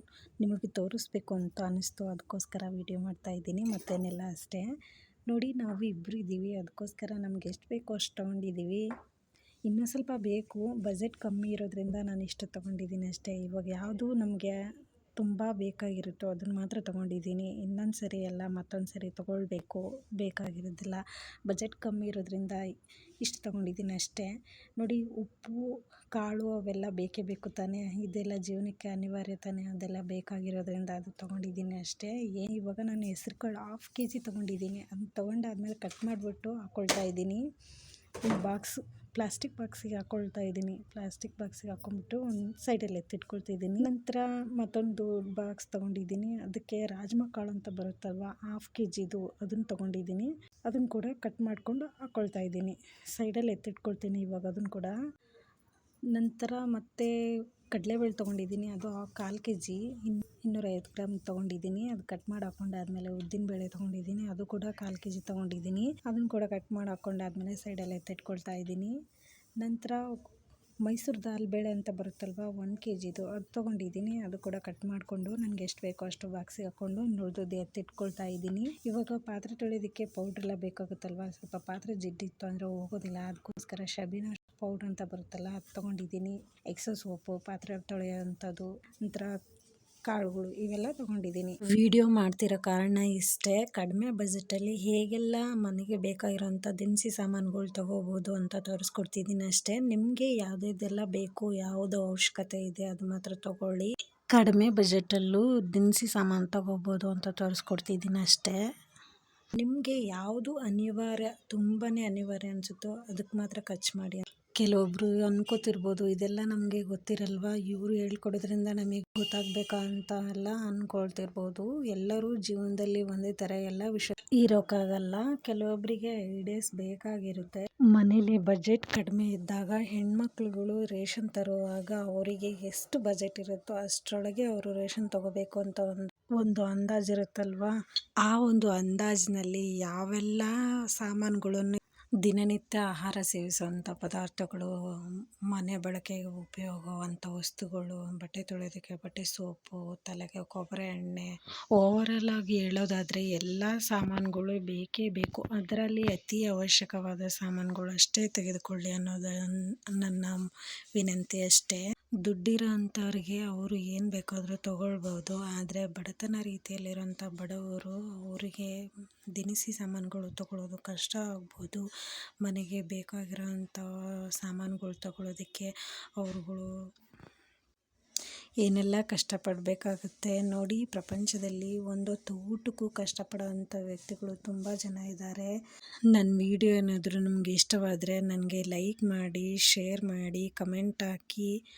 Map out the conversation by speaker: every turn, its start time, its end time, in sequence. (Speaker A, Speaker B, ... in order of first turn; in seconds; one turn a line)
Speaker A: 0.4-4.7
Speaker A: 5.3-8.8
Speaker A: 9.7-14.5
Speaker A: 15.2-22.6
Speaker A: 23.2-37.4
Speaker A: 38.2-55.0
Speaker A: 56.1-57.1
Speaker A: 57.7-68.9
Speaker A: 69.6-70.1
Speaker A: 70.8-89.3
Speaker A: 90.1-108.6
Speaker A: 109.5-137.7
Speaker A: 138.2-144.7
Speaker A: 145.5-168.7
Speaker A: 169.3-171.8
Speaker A: 172.4-173.9
Speaker A: 174.4-176.7
Speaker A: 178.6-185.5
Speaker A: 186.1-191.5